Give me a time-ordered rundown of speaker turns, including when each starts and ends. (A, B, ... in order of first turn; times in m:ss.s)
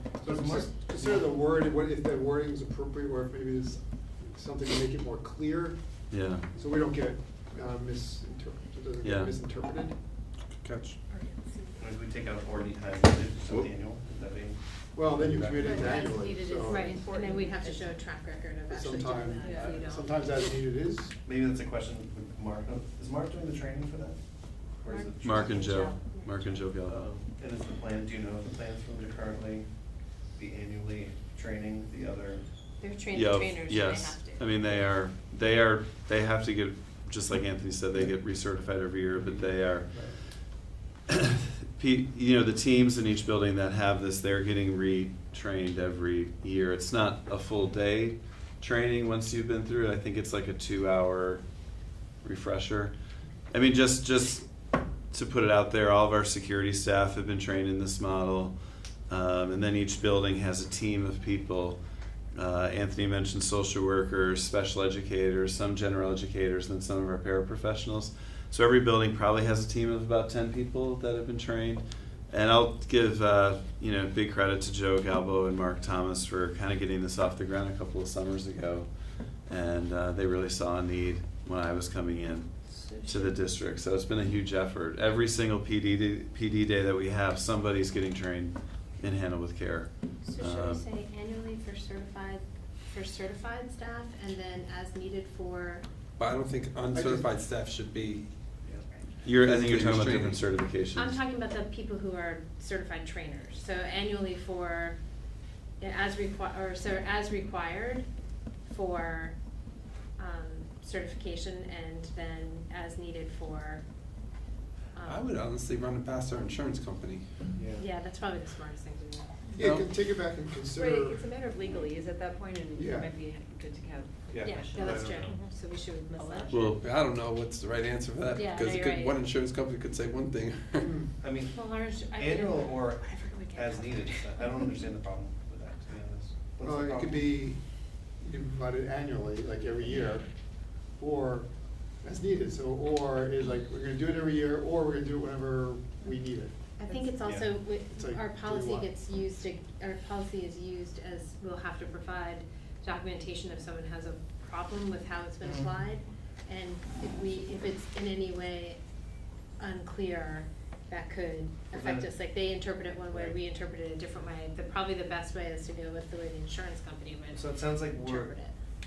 0:00.2-0:05.8 A
0:00.2-0:01.2 B
0:06.1-0:06.5 C
0:06.5-0:10.0 A
0:09.0-0:09.3 C
0:10.5-0:11.0 D
0:11.1-0:11.7 E
0:11.8-0:14.6 B
0:14.9-0:16.9 A
0:15.3-0:15.6 D
0:15.6-0:18.0 E
0:15.6-0:20.1 F
0:18.7-0:21.1 A
0:19.3-0:19.8 E
0:21.2-0:29.7 B
0:24.9-0:26.4 F
0:25.2-0:27.0 C
0:30.3-0:32.4 B
0:32.8-0:34.8 F
0:33.1-0:52.9 C
0:39.2-0:39.5 D
0:53.5-1:01.8 C
1:02.3-1:22.5 C
1:22.8-1:23.3 F
1:23.0-1:30.8 C
1:30.2-1:35.8 F
1:36.2-1:38.3 D
1:36.9-1:37.3 A
1:39.2-1:41.2 C
1:39.3-1:40.5 D
1:40.9-1:45.0 F
1:45.8-1:48.1 F
1:48.6-1:49.4 F
1:50.2-1:53.8 F
1:54.9-1:55.3 F
1:55.0-1:57.4 D
1:57.5-1:57.9 B
1:57.8-1:59.3 F
1:59.5-2:01.3 A
1:59.5-1:59.9 D
2:00.7-2:05.0 E
2:01.6-2:01.9 B
2:02.7-2:03.1 A
2:04.3-2:05.4 B
2:04.4-2:06.7 F
2:06.1-2:06.7 E
2:06.5-2:11.0 D
2:08.3-2:09.1 F
2:10.8-2:11.1 A
2:11.2-2:17.4 B
2:11.5-2:14.7 F
2:16.6-2:17.6 A
2:18.2-2:21.5 A
2:22.0-2:26.5 A
2:26.8-2:27.2 E
2:26.8-2:38.8 F
2:27.2-2:27.5 B
2:27.7-2:28.9 A
2:35.4-2:35.7 B
2:39.6-2:48.5 F
2:41.7-2:42.1 B
2:43.1-2:43.4 B
2:47.3-2:48.4 B